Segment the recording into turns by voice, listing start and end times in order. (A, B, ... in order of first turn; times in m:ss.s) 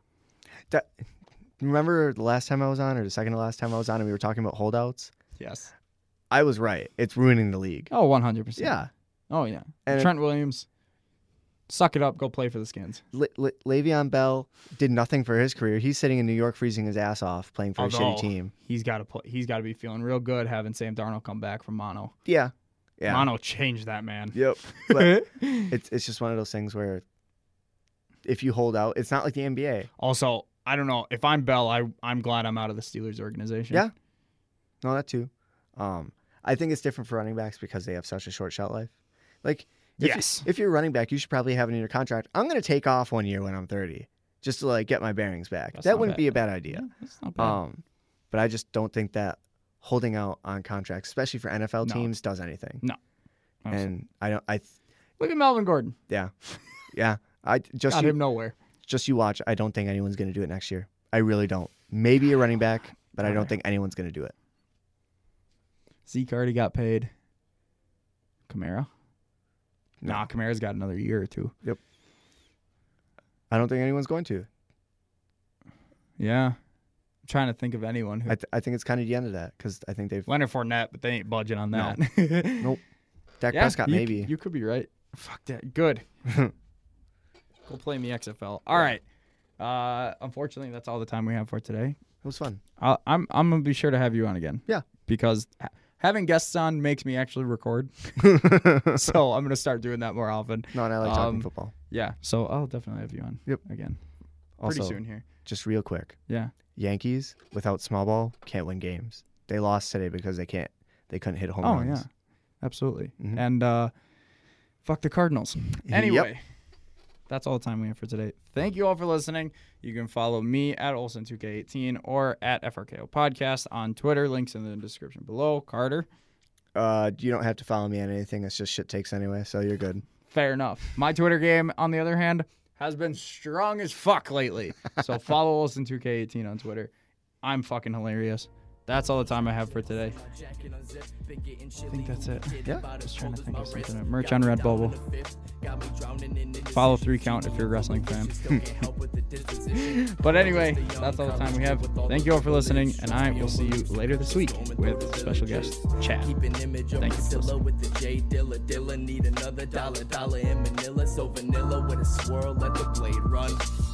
0:00.7-0:01.0 A
0:01.6-0:05.1 A
0:05.4-0:05.7 B
0:06.3-0:07.9 A
0:07.9-0:08.8 B
0:08.6-0:08.9 A
0:09.3-0:10.7 B
0:09.9-0:10.1 A
0:11.7-0:13.0 B
0:13.1-0:18.5 A
0:17.8-0:22.1 B
0:22.2-0:23.3 A
0:23.1-0:25.7 B
0:24.3-0:27.0 A
0:28.2-0:29.9 A
0:30.0-0:33.9 B
0:34.8-0:38.9 A
0:39.4-0:46.9 A
0:40.0-0:40.5 B
0:45.7-0:47.6 B
0:47.4-0:52.8 A
0:51.8-0:52.1 B
0:53.6-0:53.9 B
0:53.7-0:54.7 A
0:55.2-0:56.0 B
0:56.9-0:58.2 A
0:57.9-0:58.6 B
0:58.8-1:04.3 A
1:03.2-1:03.5 B
1:06.1-1:07.1 B
1:08.5-1:08.9 B
1:10.0-1:11.6 B
1:13.5-1:14.5 A
1:16.2-1:16.6 B
1:17.2-1:18.4 B
1:18.3-1:20.3 A
1:20.3-1:22.8 B
1:21.7-1:22.0 A
1:23.4-1:24.3 A
1:23.5-1:26.0 B
1:26.3-1:26.5 A
1:27.7-1:29.0 B
1:29.6-1:32.0 B
1:32.2-1:32.6 A
1:32.8-1:44.0 B
1:38.2-1:39.0 A
1:40.7-1:41.7 A
1:44.6-1:46.2 A
1:44.6-1:45.3 B
1:46.3-1:46.5 B
1:46.8-1:52.0 A
1:51.6-1:52.1 B
1:52.6-1:53.9 B
1:54.8-1:56.4 B
1:55.9-1:56.3 A
1:57.3-2:06.1 B
2:06.8-2:10.0 A
2:10.3-2:16.9 B
2:17.4-2:20.2 B
2:19.1-2:43.6 C
2:21.9-2:25.0 B
2:26.7-2:28.3 B
2:29.8-2:36.3 B
2:37.0-2:37.6 B